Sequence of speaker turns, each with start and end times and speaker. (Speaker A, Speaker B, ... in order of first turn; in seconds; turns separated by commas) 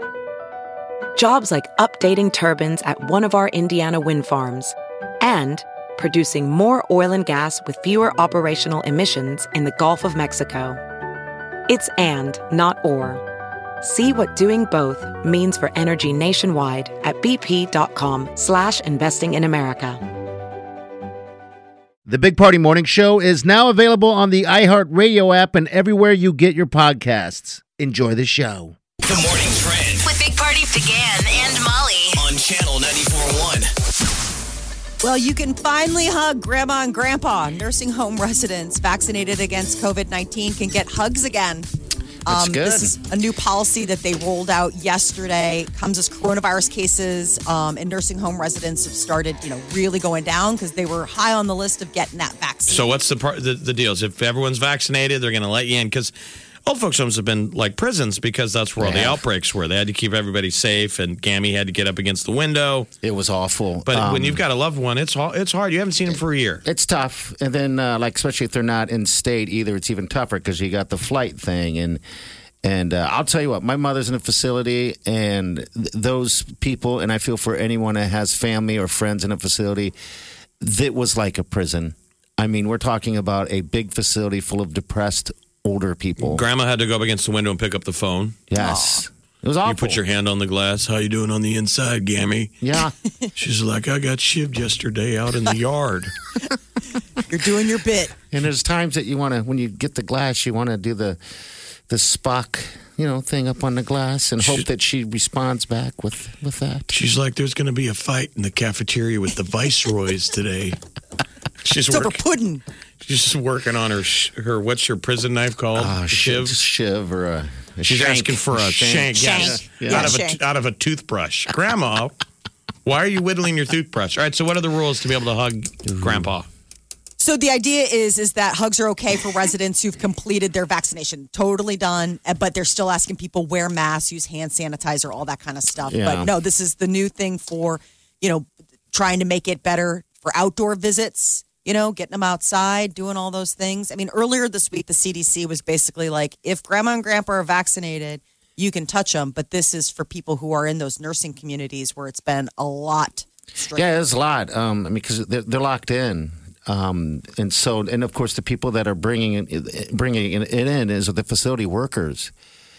Speaker A: 1.1-10.8, Speaker A: 11.7-13.2, Speaker A: 13.8-20.0, Speaker B: 22.1-28.8, Speaker C: 29.0-30.1, Speaker D: 30.0-32.2, Speaker C: 32.2-33.7, Speaker E: 35.0-41.7, Speaker E: 42.2-52.8, Speaker B: 42.3-43.0, Speaker F: 52.7-56.1, Speaker F: 56.7-62.9, Speaker B: 58.8-59.2, Speaker B: 63.0-64.4, Speaker F: 63.9-66.6, Speaker B: 66.6-72.0, Speaker B: 72.6-79.9, Speaker B: 80.6-86.4, Speaker F: 86.2-88.4, Speaker B: 88.5-90.0, Speaker E: 88.6-89.0, Speaker F: 89.6-92.5, Speaker B: 92.6-92.9, Speaker F: 93.4-96.1, Speaker E: 97.2-98.1, Speaker B: 98.3-101.2, Speaker B: 101.9-106.9, Speaker F: 106.9-110.8, Speaker F: 111.6-112.2, Speaker E: 111.9-112.6, Speaker F: 113.0-116.5, Speaker B: 115.8-120.2, Speaker F: 117.8-122.1, Speaker E: 119.2-120.4, Speaker F: 122.8-126.5, Speaker B: 125.9-126.3, Speaker E: 127.2-154.1, Speaker B: 135.9-136.3, Speaker B: 153.8-162.3